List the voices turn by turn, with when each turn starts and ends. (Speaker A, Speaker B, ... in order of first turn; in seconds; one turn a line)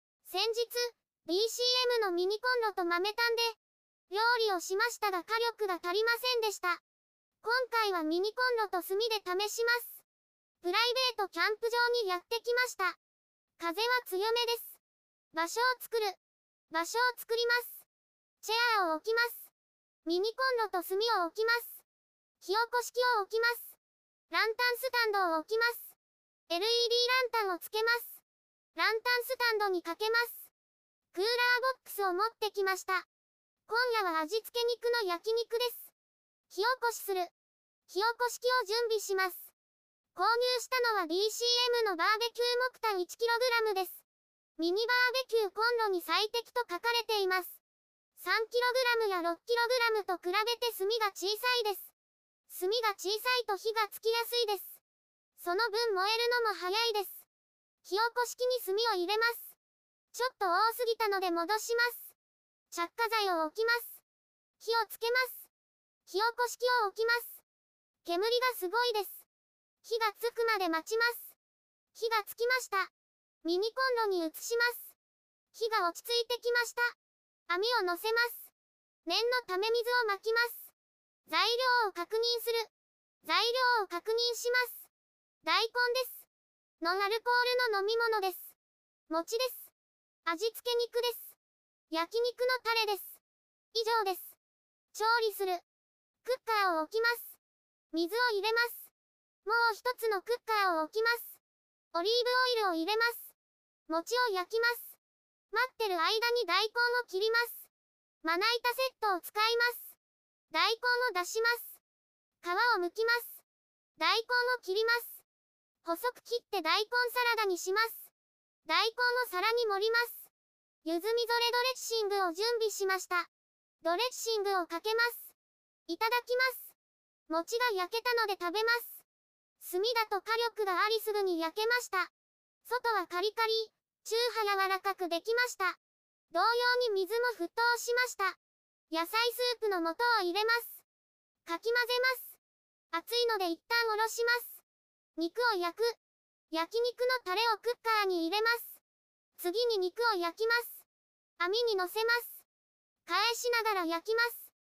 Speaker A: 0.2-3.6
Speaker A: 4.1-6.8
Speaker A: 7.4-10.1
Speaker A: 10.6-13.0
Speaker A: 13.6-14.8
Speaker A: 15.3-16.2
Speaker A: 16.7-17.9
Speaker A: 18.4-19.5
Speaker A: 20.1-21.8
Speaker A: 22.4-23.8
Speaker A: 24.3-26.0
Speaker A: 26.5-28.2
Speaker A: 28.8-30.5
Speaker A: 31.1-33.1
Speaker A: 33.7-35.9
Speaker A: 36.5-37.3
Speaker A: 37.9-39.5
Speaker A: 40.1-44.0
Speaker A: 44.6-47.6
Speaker A: 48.2-51.9
Speaker A: 52.5-54.8
Speaker A: 55.4-57.3
Speaker A: 57.8-59.6
Speaker A: 60.1-62.1
Speaker A: 62.7-64.0
Speaker A: 64.6-65.5
Speaker A: 66.1-67.4
Speaker A: 68.0-69.3
Speaker A: 69.8-71.4
Speaker A: 71.9-72.9
Speaker A: 73.4-75.0
Speaker A: 75.5-77.0
Speaker A: 77.5-78.5
Speaker A: 79.1-80.7
Speaker A: 81.3-82.7
Speaker A: 83.2-84.9
Speaker A: 85.4-86.3
Speaker A: 86.8-88.6
Speaker A: 89.1-89.7
Speaker A: 90.3-91.4
Speaker A: 91.9-93.2
Speaker A: 93.7-94.4
Speaker A: 94.9-95.6
Speaker A: 96.2-97.4
Speaker A: 97.9-98.9
Speaker A: 99.5-101.4
Speaker A: 101.9-103.3
Speaker A: 103.9-105.0
Speaker A: 105.5-107.7
Speaker A: 108.2-110.0
Speaker A: 110.5-111.8
Speaker A: 112.4-113.4
Speaker A: 114.0-115.2
Speaker A: 115.8-118.1
Speaker A: 118.7-120.3
Speaker A: 120.8-123.3
Speaker A: 123.8-125.3
Speaker A: 125.9-126.8
Speaker A: 127.3-129.1
Speaker A: 129.6-132.1
Speaker A: 132.7-135.8
Speaker A: 136.3-138.4
Speaker A: 138.9-140.8
Speaker A: 141.5-142.4
Speaker A: 142.9-144.6
Speaker A: 145.2-146.0
Speaker A: 146.5-148.8
Speaker A: 149.4-150.9
Speaker A: 151.4-152.4
Speaker A: 153.1-154.5